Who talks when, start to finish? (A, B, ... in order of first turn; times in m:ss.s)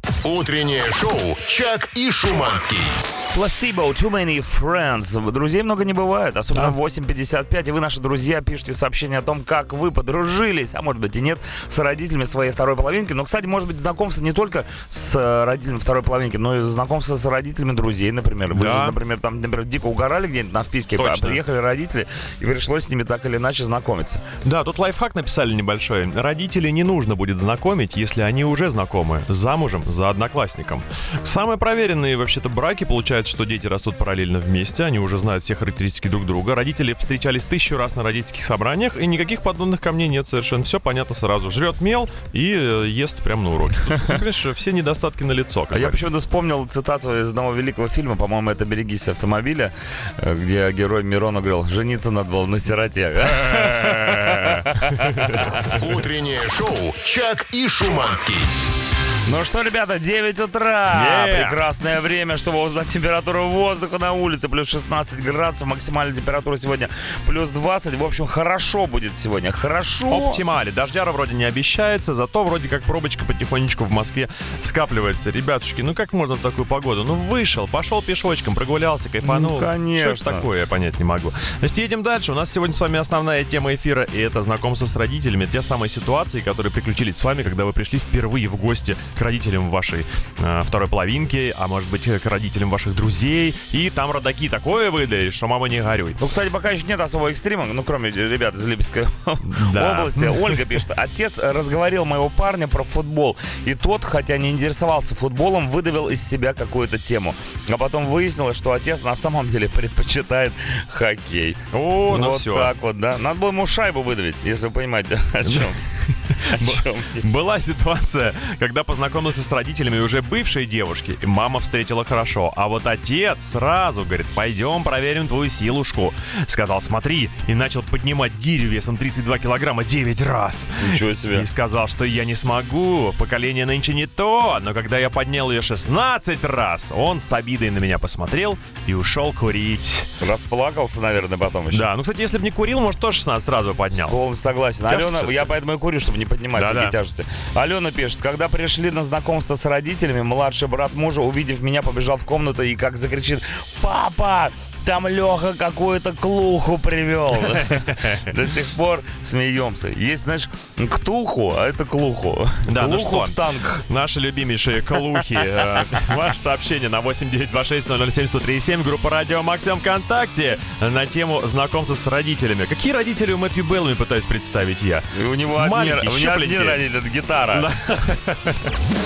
0:00.2-0:03.0 A
0:03.3-0:24.2 B
0:18.5-0:19.0 C
0:21.0-0:21.4 C
0:24.4-0:46.0 C
0:45.7-0:55.8 B
0:53.4-0:55.7 C
0:55.7-0:58.5 A
0:59.2-1:10.4 B
1:00.9-1:01.6 C
1:10.1-1:36.2 C
1:19.2-1:20.4 B
1:36.2-1:57.2 B
1:39.4-1:40.6 C
1:51.7-1:52.7 C
1:55.4-2:20.1 C
2:10.8-2:11.5 B
2:20.2-2:21.8 B
2:21.7-2:24.2 C
2:24.0-2:43.8 B
2:24.9-2:25.5 C
2:26.6-2:26.9 C
2:37.4-2:38.3 C
2:42.6-2:56.8 C
2:55.1-2:57.7 B
2:57.5-2:58.7 C